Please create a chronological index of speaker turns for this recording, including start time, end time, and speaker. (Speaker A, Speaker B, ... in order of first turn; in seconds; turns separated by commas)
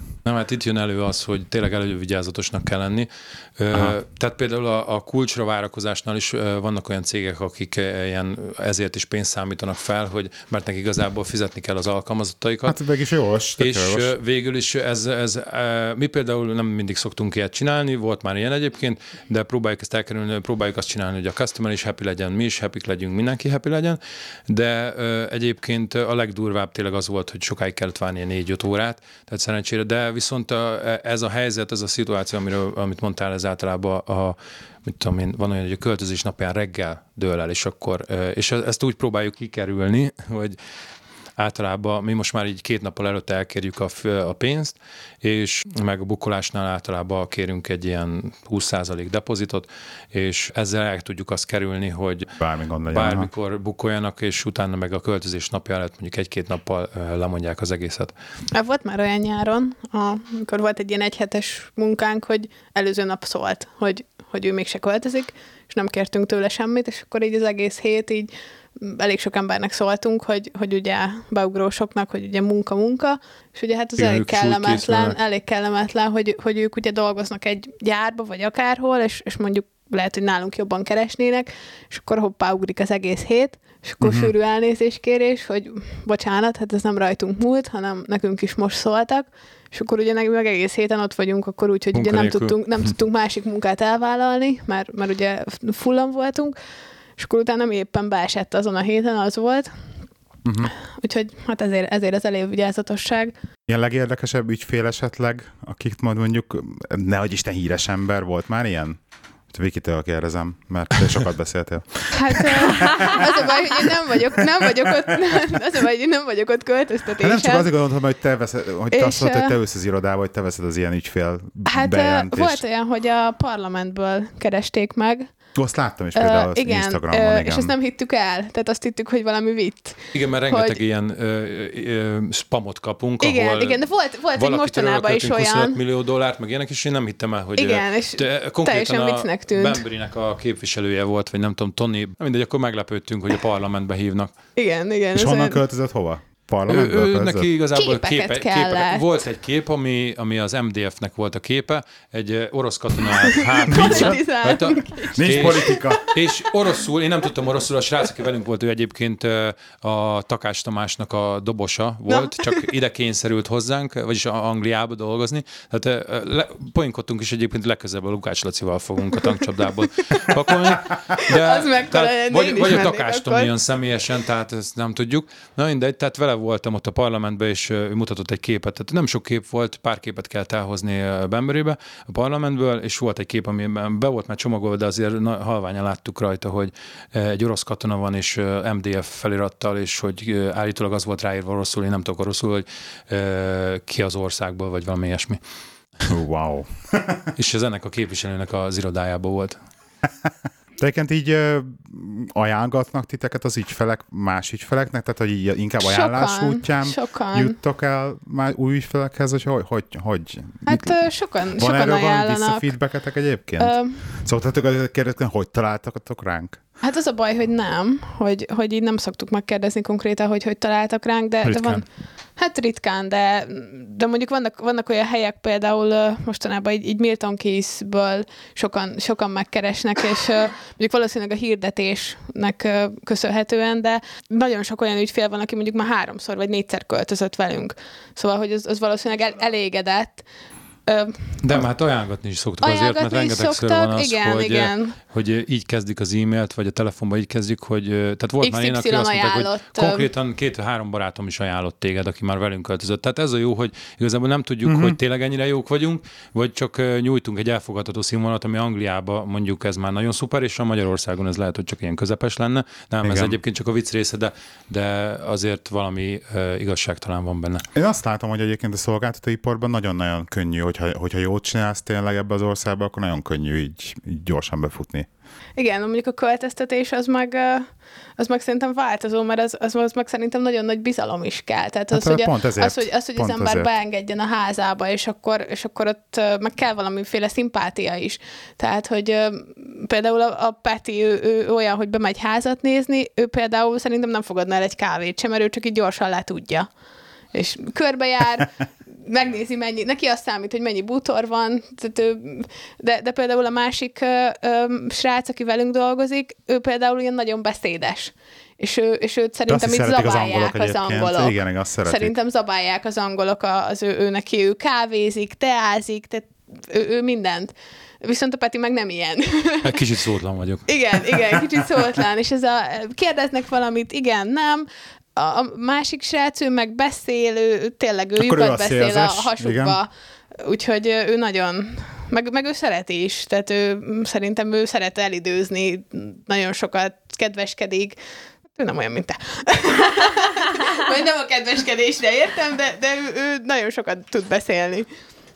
Speaker A: 0.2-12.8, Speaker B: 3.7-4.0, Speaker B: 12.7-14.1, Speaker A: 13.6-40.6, Speaker A: 41.4-52.3, Speaker B: 52.4-53.3, Speaker A: 52.9-58.1, Speaker C: 58.5-96.5, Speaker A: 74.0-75.2, Speaker B: 84.0-84.3, Speaker A: 91.9-92.9, Speaker C: 97.2-99.7, Speaker B: 100.4-100.7, Speaker C: 100.9-103.3, Speaker B: 103.7-109.0, Speaker B: 109.5-113.4, Speaker C: 112.1-117.7, Speaker B: 114.3-115.1, Speaker B: 117.2-122.6, Speaker C: 118.9-119.5, Speaker C: 121.7-125.3, Speaker B: 125.5-127.7, Speaker C: 126.1-130.8, Speaker A: 130.1-144.3, Speaker C: 133.2-135.8, Speaker C: 137.6-139.8, Speaker C: 144.6-145.6, Speaker B: 145.1-147.5, Speaker A: 146.7-195.4, Speaker C: 147.7-149.1, Speaker C: 153.4-156.4, Speaker B: 153.7-154.2, Speaker B: 155.1-156.0, Speaker C: 162.1-162.6, Speaker C: 171.2-173.5, Speaker B: 196.1-197.3, Speaker A: 197.3-199.6, Speaker B: 200.2-216.6, Speaker C: 205.8-207.6, Speaker C: 210.7-212.7, Speaker C: 213.6-214.1, Speaker C: 216.8-221.8, Speaker B: 221.4-221.8, Speaker C: 222.4-240.2, Speaker C: 240.8-241.6, Speaker A: 241.4-267.6, Speaker C: 242.6-244.9, Speaker C: 248.4-250.1, Speaker B: 254.6-255.0, Speaker B: 263.0-263.4, Speaker B: 267.7-275.1, Speaker C: 275.6-296.7, Speaker B: 281.9-283.7, Speaker C: 297.3-319.9, Speaker B: 309.5-312.1, Speaker A: 319.6-320.8, Speaker C: 320.7-337.9, Speaker B: 328.2-329.8, Speaker C: 338.5-344.9